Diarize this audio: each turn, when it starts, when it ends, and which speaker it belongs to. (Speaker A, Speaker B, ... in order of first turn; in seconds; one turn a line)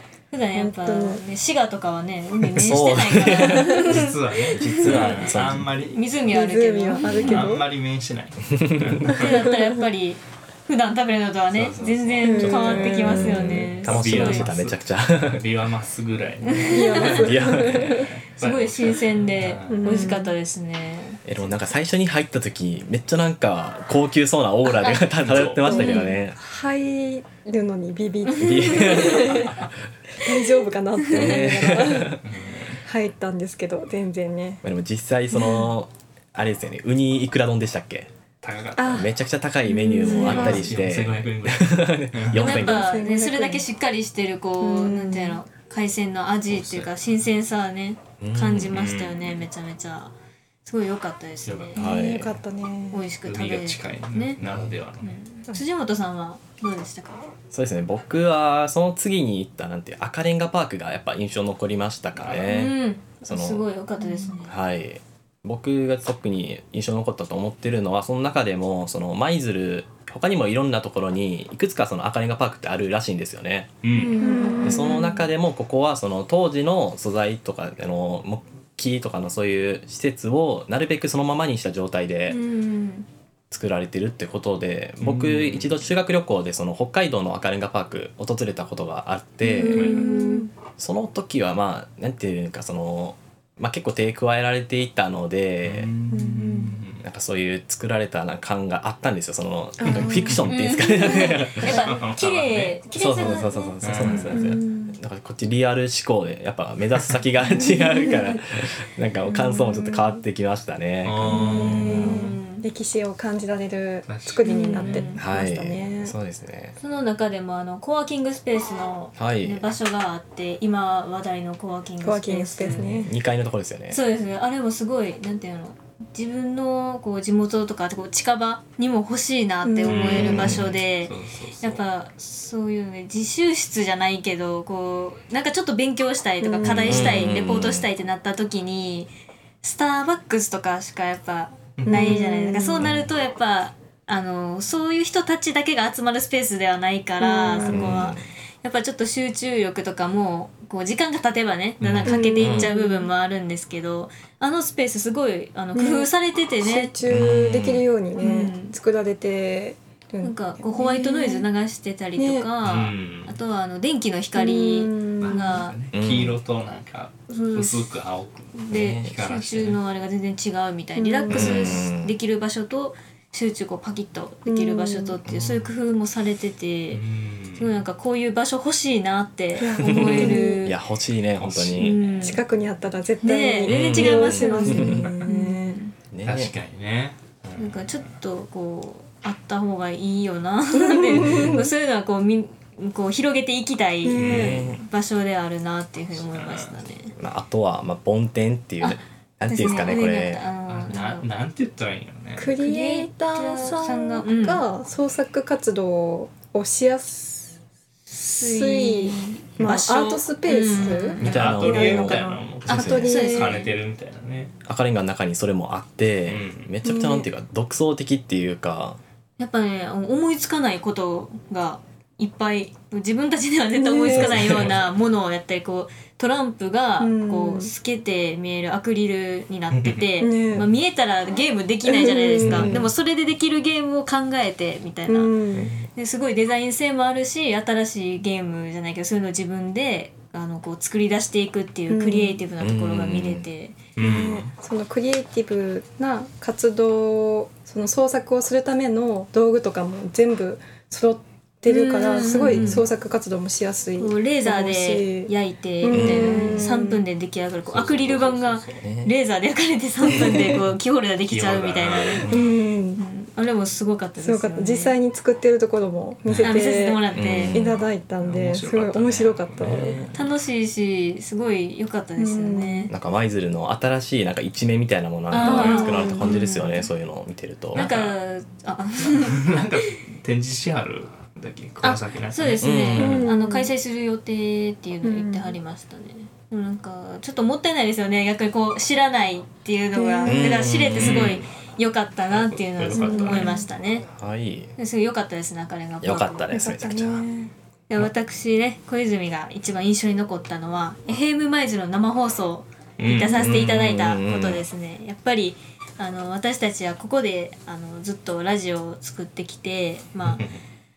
Speaker A: 0.3-5.3
Speaker B: 0.6-1.2
Speaker C: 2.6-5.7
Speaker D: 3.3-6.2
Speaker A: 5.8-7.5
Speaker B: 6.3-7.6
Speaker D: 7.0-9.5
Speaker C: 8.5-9.1
Speaker A: 9.1-14.5
Speaker D: 11.5-20.1
Speaker B: 12.2-13.7
Speaker C: 12.4-15.4
Speaker A: 16.5-17.3
Speaker B: 16.6-18.1
Speaker C: 17.0-18.1
Speaker A: 18.4-21.2
Speaker B: 19.7-20.3
Speaker C: 21.2-26.4
Speaker A: 24.7-25.1
Speaker D: 25.1-25.9
Speaker B: 25.6-29.5
Speaker A: 25.7-26.1
Speaker A: 28.2-29.5
Speaker C: 28.4-29.7
Speaker B: 30.2-32.2
Speaker A: 31.0-31.7
Speaker C: 31.1-32.2
Speaker D: 32.2-32.8
Speaker B: 32.8-34.6
Speaker C: 34.6-38.1
Speaker B: 35.3-35.7
Speaker D: 38.4-39.1
Speaker B: 38.8-39.1
Speaker C: 38.9-42.9
Speaker B: 39.6-40.7
Speaker D: 40.0-42.6
Speaker A: 40.1-40.6
Speaker A: 42.3-50.1
Speaker B: 42.4-43.6
Speaker B: 44.6-45.4
Speaker D: 46.5-46.9
Speaker C: 48.2-48.8
Speaker D: 48.7-49.4
Speaker A: 50.6-51.8
Speaker D: 51.5-51.8
Speaker C: 51.8-52.4
Speaker B: 51.8-53.0
Speaker A: 52.9-54.4
Speaker D: 53.2-55.2
Speaker C: 54.4-54.7
Speaker A: 55.0-57.3
Speaker C: 57.5-63.6
Speaker D: 62.2-62.5
Speaker A: 62.5-64.5
Speaker B: 64.0-64.4
Speaker C: 64.4-73.8
Speaker D: 73.8-74.2
Speaker A: 73.9-75.0
Speaker B: 74.0-75.2
Speaker C: 74.6-82.4
Speaker A: 82.3-83.1
Speaker C: 83.5-90.0
Speaker D: 85.0-85.8
Speaker B: 89.4-90.5
Speaker A: 89.5-90.5
Speaker D: 89.7-90.1
Speaker C: 90.8-95.9
Speaker D: 95.6-97.0
Speaker B: 96.1-96.8
Speaker C: 97.0-101.8
Speaker B: 99.8-100.4
Speaker D: 99.9-100.4
Speaker A: 100.5-104.2
Speaker D: 101.6-102.8
Speaker C: 102.9-112.3
Speaker D: 103.8-104.5
Speaker B: 104.0-105.0
Speaker B: 107.5-108.2
Speaker B: 109.3-110.1
Speaker D: 111.0-112.2
Speaker B: 111.3-116.1
Speaker A: 111.9-112.7
Speaker D: 114.1-115.1
Speaker A: 114.4-115.2
Speaker C: 115.1-116.8
Speaker A: 116.8-123.0
Speaker C: 119.2-119.6
Speaker B: 122.0-123.1
Speaker C: 123.0-124.0
Speaker A: 123.9-139.1
Speaker B: 129.6-130.3
Speaker D: 129.8-131.8
Speaker C: 130.1-130.6
Speaker B: 136.4-137.3
Speaker C: 136.7-137.9
Speaker A: 139.6-156.9
Speaker D: 141.8-142.2
Speaker B: 141.8-142.9
Speaker B: 147.2-148.0
Speaker C: 147.6-148.2
Speaker D: 151.8-152.2
Speaker B: 152.0-153.1
Speaker C: 152.4-152.7
Speaker B: 155.7-156.1
Speaker B: 156.6-161.4
Speaker C: 157.0-157.8
Speaker A: 158.2-158.7
Speaker A: 160.2-165.7
Speaker B: 162.2-162.5
Speaker D: 162.6-163.4
Speaker B: 164.3-165.6
Speaker D: 165.2-169.8
Speaker C: 165.9-166.4
Speaker A: 167.3-167.9
Speaker A: 168.6-177.0
Speaker C: 168.7-169.1
Speaker B: 170.9-171.8
Speaker C: 171.3-172.1
Speaker B: 174.4-175.2
Speaker D: 176.9-177.8
Speaker A: 177.6-180.8
Speaker B: 179.6-180.6
Speaker C: 179.8-182.0
Speaker D: 181.4-182.4
Speaker A: 181.8-182.4
Speaker B: 182.2-185.8
Speaker A: 183.2-185.9
Speaker C: 183.7-185.1
Speaker C: 186.1-186.5
Speaker D: 186.2-188.1
Speaker A: 187.6-197.1
Speaker B: 190.7-191.7
Speaker B: 194.0-194.6
Speaker D: 194.2-194.6
Speaker C: 194.2-194.8
Speaker D: 196.1-196.8
Speaker C: 197.2-200.4
Speaker A: 198.8-201.3
Speaker D: 200.7-202.6
Speaker B: 202.4-207.5
Speaker A: 202.6-204.6
Speaker A: 208.1-211.3
Speaker B: 208.2-213.6
Speaker D: 210.7-214.5
Speaker C: 211.2-213.1
Speaker A: 213.0-213.7
Speaker C: 214.6-219.0
Speaker D: 216.3-216.7
Speaker B: 216.8-217.3
Speaker A: 219.4-235.3
Speaker B: 223.7-224.4
Speaker C: 224.1-224.7
Speaker D: 224.4-224.8
Speaker B: 227.0-227.7
Speaker D: 229.7-230.0
Speaker B: 230.2-230.7
Speaker B: 231.8-232.9
Speaker D: 232.4-232.7
Speaker B: 235.1-235.7
Speaker C: 235.5-235.9
Speaker A: 235.9-243.8
Speaker B: 241.9-242.4
Speaker C: 242.6-243.4
Speaker D: 244.0-244.4
Speaker C: 244.0-244.5
Speaker B: 244.0-257.0
Speaker A: 251.7-252.9
Speaker A: 254.0-262.4
Speaker C: 255.8-256.7
Speaker D: 257.7-258.9
Speaker C: 258.8-259.1
Speaker B: 260.1-260.5
Speaker D: 261.3-262.4
Speaker B: 262.2-263.0
Speaker A: 263.0-264.9
Speaker B: 264.2-270.0
Speaker D: 266.3-266.6
Speaker A: 266.4-267.6
Speaker C: 267.1-267.8
Speaker D: 267.5-270.3
Speaker A: 270.1-272.9
Speaker B: 272.2-272.9
Speaker C: 272.9-277.9
Speaker A: 275.3-276.9
Speaker B: 275.3-276.5
Speaker D: 275.4-275.9
Speaker D: 277.7-278.1
Speaker A: 277.7-279.6
Speaker D: 279.0-282.7
Speaker A: 281.8-294.1
Speaker C: 282.6-283.3
Speaker B: 283.0-283.7
Speaker B: 285.0-285.6
Speaker B: 289.9-290.6
Speaker C: 290.2-291.4
Speaker D: 290.9-291.4
Speaker D: 292.3-293.6
Speaker B: 292.9-293.7
Speaker C: 294.1-294.7
Speaker A: 294.8-296.5
Speaker C: 296.0-297.3
Speaker B: 296.5-297.5
Speaker A: 297.9-310.4
Speaker D: 303.0-303.5
Speaker C: 303.3-304.6
Speaker D: 310.3-310.6